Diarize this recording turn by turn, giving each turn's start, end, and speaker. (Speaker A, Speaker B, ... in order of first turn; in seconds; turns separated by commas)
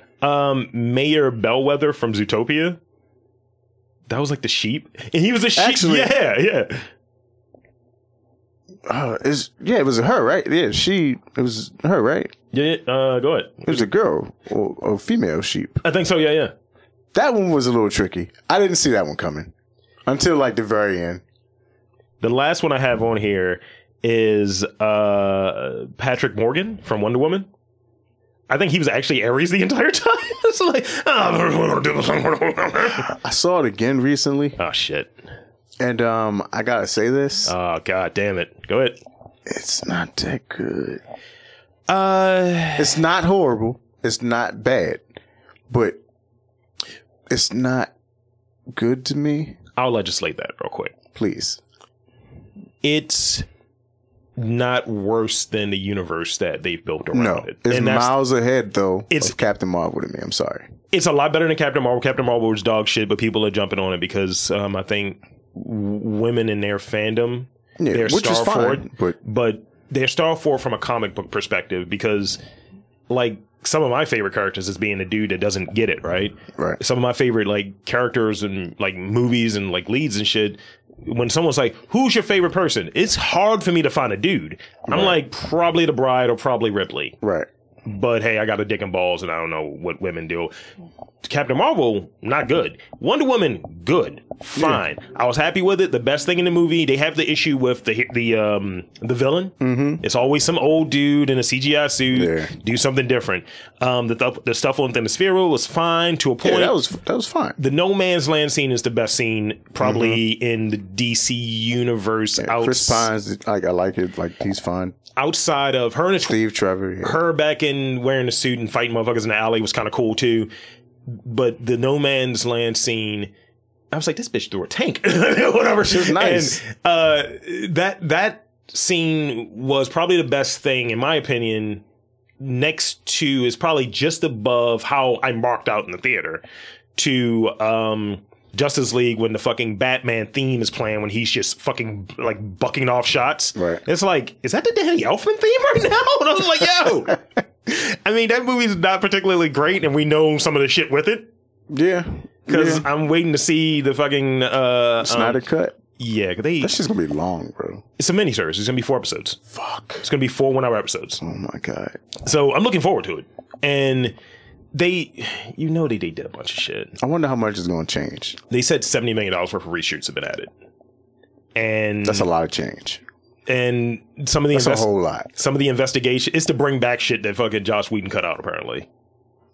Speaker A: 0.2-2.8, Speaker A: 4.1-6.9, Speaker B: 5.5-6.1, Speaker B: 8.9-12.3, Speaker A: 12.5-13.8, Speaker B: 13.7-15.8, Speaker A: 15.8-16.5, Speaker B: 17.1-19.5, Speaker B: 20.1-21.2, Speaker A: 22.2-27.5, Speaker A: 28.5-33.1, Speaker B: 33.0-34.6, Speaker A: 34.6-35.1, Speaker B: 35.8-37.5, Speaker A: 37.5-39.0, Speaker B: 39.5-41.0, Speaker A: 41.9-43.0, Speaker B: 42.8-45.0, Speaker B: 45.7-46.0, Speaker B: 47.3-47.9, Speaker B: 48.7-49.6, Speaker A: 49.8-50.9, Speaker B: 51.1-51.6, Speaker A: 52.8-53.5, Speaker A: 54.4-58.1, Speaker B: 57.1-60.7, Speaker A: 59.1-59.4, Speaker A: 60.9-72.4, Speaker B: 67.8-69.2, Speaker A: 73.1-87.2, Speaker B: 84.9-85.2, Speaker B: 87.2-87.5, Speaker A: 87.9-90.5, Speaker A: 91.2-106.8, Speaker B: 94.6-94.8, Speaker B: 99.6-100.0, Speaker B: 102.1-102.5, Speaker B: 106.4-107.6, Speaker A: 107.6-113.1, Speaker B: 109.8-110.2, Speaker B: 112.4-115.0, Speaker A: 115.2-116.4, Speaker B: 116.3-117.2, Speaker A: 117.0-120.5, Speaker A: 121.1-123.3, Speaker A: 123.9-131.8, Speaker B: 125.8-126.6, Speaker A: 132.4-136.4, Speaker A: 137.0-151.3, Speaker B: 143.6-143.8, Speaker B: 151.7-152.8, Speaker A: 152.5-156.8, Speaker B: 155.0-155.8, Speaker B: 156.6-157.8, Speaker A: 158.0-159.4, Speaker B: 159.5-160.0, Speaker A: 160.0-161.2, Speaker B: 161.2-162.0, Speaker A: 162.2-164.2, Speaker A: 164.7-166.9, Speaker B: 167.0-168.4, Speaker A: 168.5-170.5, Speaker A: 171.6-172.3, Speaker B: 172.0-173.0, Speaker A: 173.5-178.9, Speaker B: 174.5-175.3